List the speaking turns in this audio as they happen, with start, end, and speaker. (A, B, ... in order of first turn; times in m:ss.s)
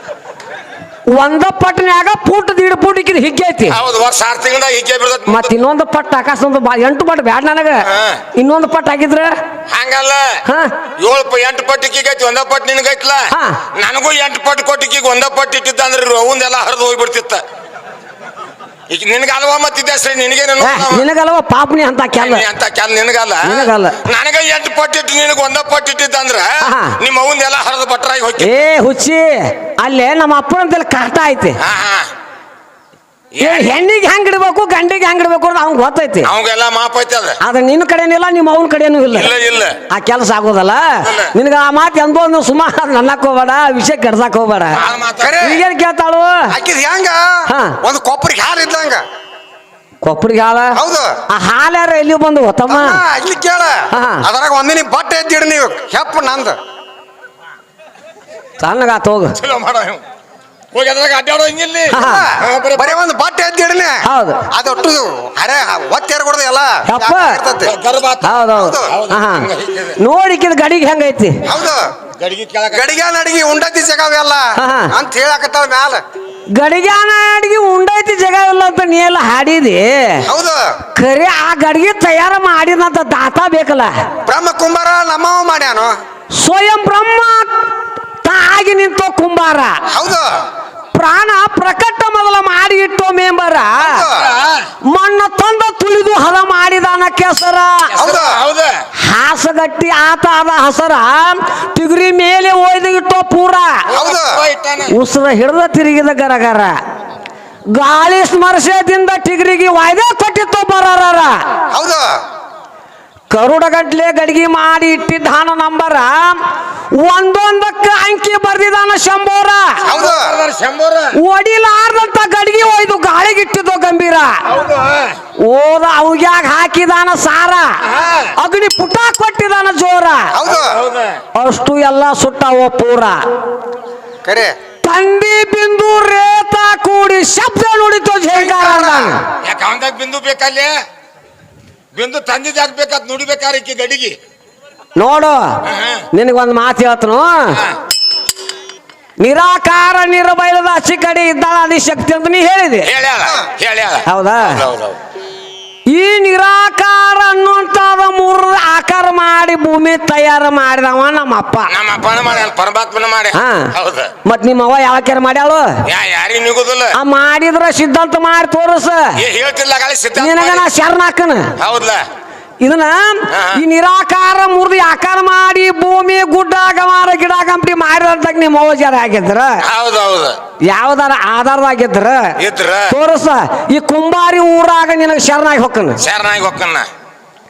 0:01.1-0:03.8 A
0:03.7-0:05.5 B
0:05.3-0:09.3 A
0:07.8-0:08.2 B
0:09.7-0:10.4 B
0:10.4-0:10.7 A
0:11.0-0:17.4 B
0:13.3-0:13.6 A
0:18.9-0:21.0 B
0:20.6-0:22.4 A
0:22.2-0:28.6 B
0:23.4-0:24.0 A
0:26.6-0:27.0 A
0:28.4-0:31.6 A
0:31.6-0:32.1 B
0:33.3-0:33.7 B
0:33.4-0:36.3 A
0:36.2-0:37.4 B
0:37.4-0:39.3 A
0:39.1-0:39.8 B
0:39.9-0:44.8 A
0:41.0-0:41.3 B
0:44.7-0:45.4 B
0:45.2-0:45.6 C
0:45.4-0:46.5 A
0:46.5-0:49.0 C
0:47.5-0:47.8 A
0:50.0-0:50.8 A
0:50.7-0:51.2 C
0:51.3-0:53.0 A
0:52.7-0:56.6 C
0:53.9-0:54.2 A
0:58.6-0:59.4 A
0:59.4-1:00.0 B
1:00.7-1:03.0 B
1:01.9-1:07.7 C
1:01.9-1:02.3 A
1:04.0-1:04.4 A
1:06.9-1:07.4 A
1:07.6-1:10.0 B
1:08.2-1:09.5 A
1:08.6-1:08.9 C
1:10.0-1:11.4 A
1:11.4-1:11.9 C
1:12.2-1:13.0 B
1:12.7-1:16.0 C
1:14.6-1:14.9 A
1:16.5-1:20.2 A
1:20.2-1:20.8 C
1:21.0-1:23.9 A
1:24.2-1:26.0 C
1:26.4-1:27.5 A
1:28.2-1:29.8 A
1:29.9-1:30.4 C
1:30.9-1:34.1 A
1:33.8-1:34.3 C
1:34.1-1:34.7 B
1:34.8-1:37.9 A
1:37.9-1:38.8 B
1:37.9-1:38.4 C
1:39.0-1:43.8 A
1:43.9-1:44.9 B
1:43.9-1:44.4 C
1:44.9-1:46.8 A
1:47.7-1:51.4 A
1:51.7-1:52.1 C
1:53.3-1:56.4 A
1:56.9-1:59.8 A
1:59.8-2:00.4 C
1:59.8-2:01.2 B
2:01.1-2:04.4 A
2:04.5-2:05.2 B
2:05.4-2:07.8 A
2:07.8-2:08.3 B
2:08.4-2:10.3 A
2:10.3-2:10.8 C
2:10.4-2:11.2 B
2:11.3-2:13.2 A
2:14.2-2:14.5 C
2:14.8-2:19.2 A
2:18.3-2:19.2 C
2:19.4-2:20.8 B
2:21.9-2:24.2 B
2:25.0-2:25.6 A
2:25.6-2:26.0 B
2:26.1-2:27.6 A
2:27.5-2:27.8 B
2:29.2-2:32.9 A
2:32.8-2:35.0 B
2:34.0-2:34.6 A
2:35.9-2:41.7 A
2:41.7-2:44.1 B
2:43.3-2:43.7 A
2:44.2-2:45.8 A
2:45.8-2:46.9 B
2:46.9-2:49.2 A
2:49.2-2:50.6 B
2:50.2-2:51.5 A
2:51.6-2:52.0 B
2:52.6-2:59.6 A
2:53.3-2:53.6 B
2:59.6-3:00.4 B
3:00.6-3:02.3 A
3:02.4-3:02.9 B
3:02.9-3:06.0 A
3:06.0-3:06.9 B